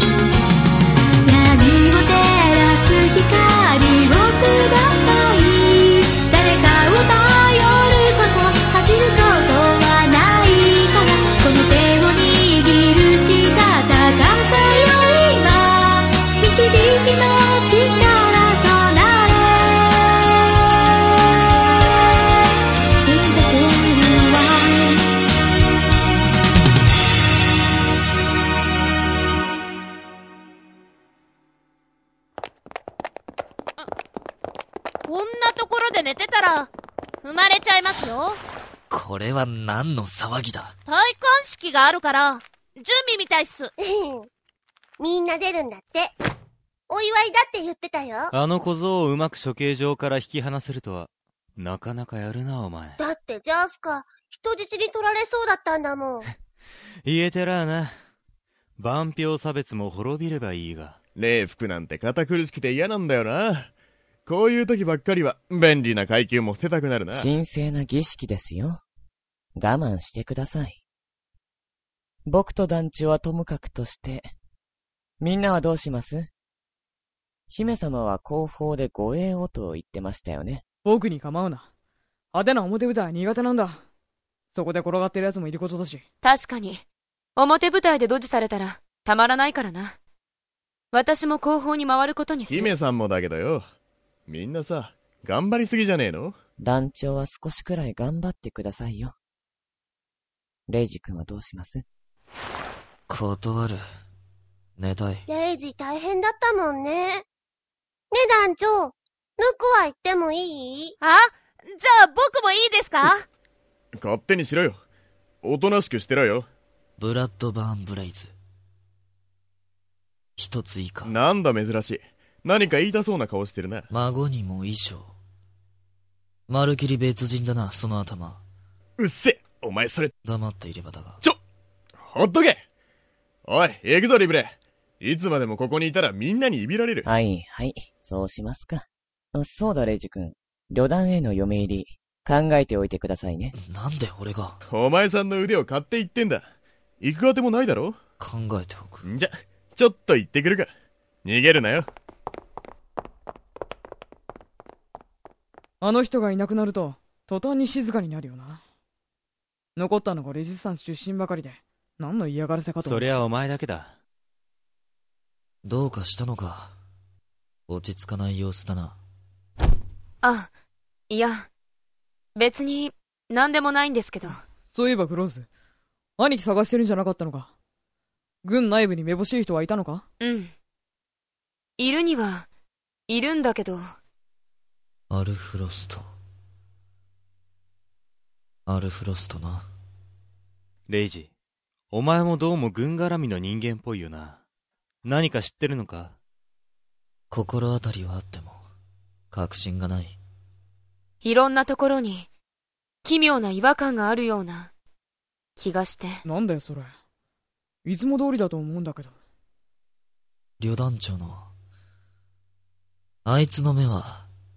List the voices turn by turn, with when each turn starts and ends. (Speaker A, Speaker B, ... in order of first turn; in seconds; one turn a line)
Speaker A: 1.2-19.4
Speaker A: 24.0-24.7
Speaker A: 35.0-36.7
Speaker B: 35.0-36.7
Speaker B: 37.2-38.3
Speaker A: 37.2-38.4
Speaker C: 38.9-40.7
Speaker A: 40.9-43.7
Speaker B: 40.9-43.7
Speaker D: 43.8-44.3
Speaker D: 45.0-46.1
Speaker D: 46.9-48.3
Speaker E: 48.3-53.0
Speaker D: 53.0-56.3
Speaker E: 57.0-57.9
Speaker E: 58.8-61.0
Speaker F: 61.1-63.7
Speaker F: 64.2-67.3
Speaker G: 67.1-68.8
Speaker G: 69.6-70.8
Speaker G: 72.2-74.3
Speaker G: 75.2-76.3
Speaker G: 77.5-80.6
Speaker H: 80.8-81.7
Speaker H: 82.3-83.8
Speaker H: 84.5-86.0
Speaker I: 86.2-86.8
Speaker I: 87.3-90.0
Speaker I: 90.9-92.7
Speaker F: 92.5-93.6
Speaker F: 94.3-96.3
Speaker G: 96.6-99.1
Speaker G: 100.7-101.8
Speaker C: 103.1-103.8
Speaker C: 104.8-105.2
Speaker D: 105.3-107.2
Speaker D: 108.1-110.9
Speaker B: 111.0-113.1
Speaker A: 112.4-113.1
Speaker F: 114.0-114.8
Speaker F: 115.4-116.5
Speaker C: 117.0-118.3
Speaker C: 120.4-121.2
Speaker F: 121.0-123.8
Speaker C: 123.9-125.1
Speaker C: 126.5-128.4
Speaker F: 129.0-130.1
Speaker C: 130.2-131.2
Speaker F: 132.1-132.6
Speaker F: 133.4-137.1
Speaker G: 137.0-143.5
Speaker C: 143.5-144.6
Speaker F: 144.7-146.4
Speaker F: 147.0-148.0
Speaker C: 148.2-149.1
Speaker F: 149.0-150.7
Speaker F: 151.2-151.8
Speaker H: 155.8-158.6
Speaker H: 159.8-163.2
Speaker E: 162.8-163.9
Speaker C: 165.6-166.7
Speaker C: 167.7-169.0
Speaker I: 170.2-170.5
Speaker I: 171.1-171.5
Speaker I: 172.3-174.4
Speaker H: 174.7-175.5
Speaker H: 176.2-177.5
Speaker H: 178.4-180.0
Speaker I: 180.2-180.5
Speaker I: 181.8-182.5
Speaker I: 183.1-183.9
Speaker C: 185.1-186.1
Speaker C: 188.7-189.7
Speaker E: 190.9-191.3
Speaker E: 191.9-194.4
Speaker E: 195.0-196.2
Speaker C: 197.3-198.6
Speaker C: 199.3-200.2
Speaker I: 201.2-202.3
Speaker I: 203.0-204.7
Speaker I: 205.6-206.2
Speaker H: 206.2-206.9
Speaker H: 207.8-209.1
Speaker C: 210.6-211.5
Speaker C: 213.2-214.3